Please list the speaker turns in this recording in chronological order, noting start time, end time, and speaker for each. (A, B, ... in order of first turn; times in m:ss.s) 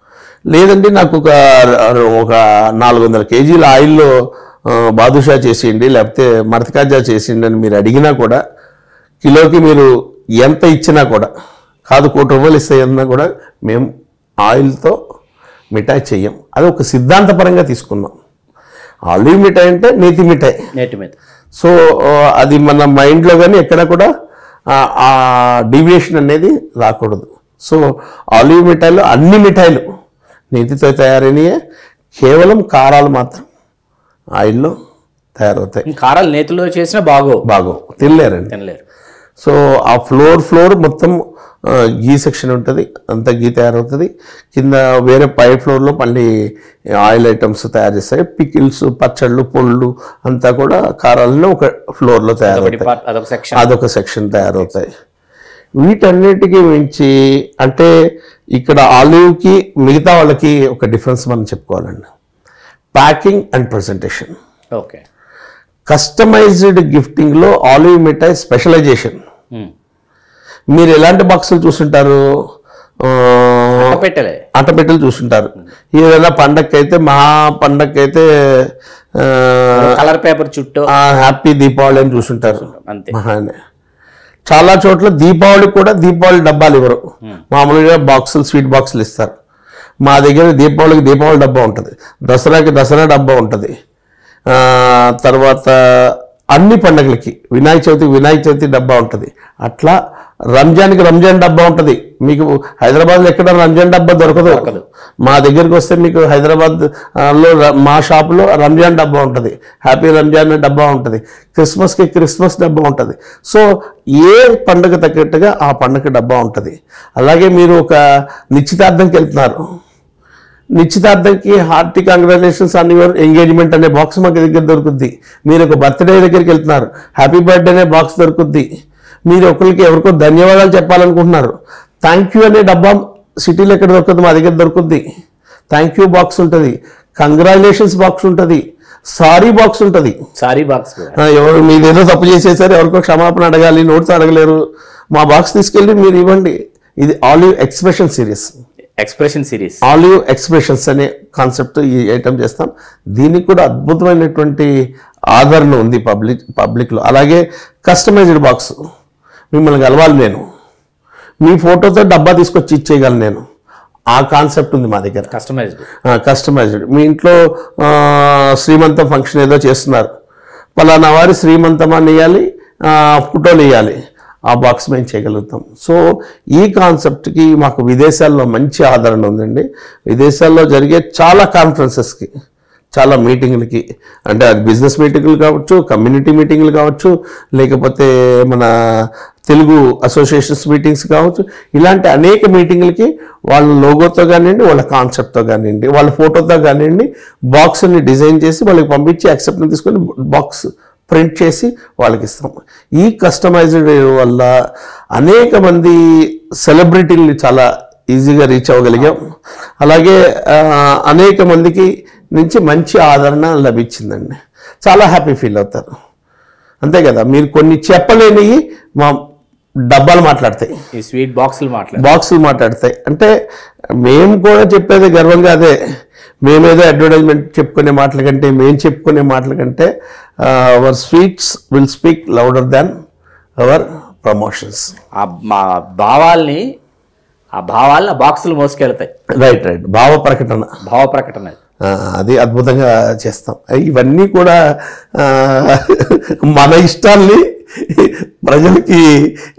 0:00.5-0:04.1 A
0:04.7-0:08.4 A
0:09.2-0:09.9 A
0:10.4-0:11.3 A
0:11.9-0:13.9 A
0:14.4-0:15.0 A
0:15.7-0:18.1 A
0:19.1-0:20.5 A
0:20.8-0:21.2 B
0:21.6-0:24.1 A
0:24.7-0:27.8 A
0:28.4-0:29.8 A
0:30.5-0:31.5 A
0:32.2-0:33.4 A
0:34.4-0:34.7 A
0:35.4-0:35.8 A
0:35.9-0:37.4 B
0:37.5-0:38.5 A
0:38.0-0:38.8 B
0:39.4-0:41.2 A
0:41.7-0:46.3 A
0:47.0-0:52.9 A
0:52.5-0:53.7 B
0:53.5-0:54.9 A
0:54.3-0:54.7 B
0:55.8-0:57.1 A
0:57.6-0:57.9 A
0:58.6-1:02.0 A
1:02.9-1:04.3 A
1:04.8-1:05.0 B
1:05.9-1:09.2 A
1:10.7-1:12.2 A
1:13.0-1:14.0 A
1:13.8-1:14.4 B
1:14.6-1:19.8 A
1:19.7-1:20.9 B
1:21.0-1:23.5 A
1:22.2-1:23.1 B
1:24.5-1:27.0 A
1:27.5-1:29.3 A
1:30.1-1:33.7 A
1:34.5-1:39.9 A
1:40.5-1:44.7 A
1:44.2-1:44.8 B
1:45.2-1:53.6 A
1:54.2-1:58.0 A
1:58.5-1:59.6 A
2:00.8-2:08.7 A
2:09.3-2:15.0 A
2:15.7-2:20.2 A
2:20.4-2:21.2 B
2:21.2-2:24.6 A
2:25.1-2:28.5 A
2:29.0-2:29.8 B
2:29.9-2:34.7 A
2:35.3-2:38.7 A
2:39.5-2:40.4 A
2:41.4-2:43.4 A
2:44.1-2:45.3 A
2:45.3-2:45.8 B
2:46.1-2:50.1 A
2:50.8-2:54.0 A
2:54.5-2:56.0 A
2:56.6-3:02.3 A
3:03.0-3:08.7 A
3:09.5-3:24.5 A
3:25.2-3:26.0 A
3:26.6-3:29.2 A
3:29.8-3:35.9 A
3:36.8-3:39.1 A
3:39.9-3:40.7 A
3:40.9-3:42.1 B
3:42.0-3:43.3 A
3:44.0-3:45.7 A
3:46.4-3:49.9 A
3:50.4-3:52.9 A
3:53.6-3:54.9 A
3:55.2-3:56.6 B
3:57.6-3:59.1 B
3:59.4-4:00.7 A
4:00.8-4:01.6 B
4:01.8-4:04.6 A
4:05.2-4:09.0 A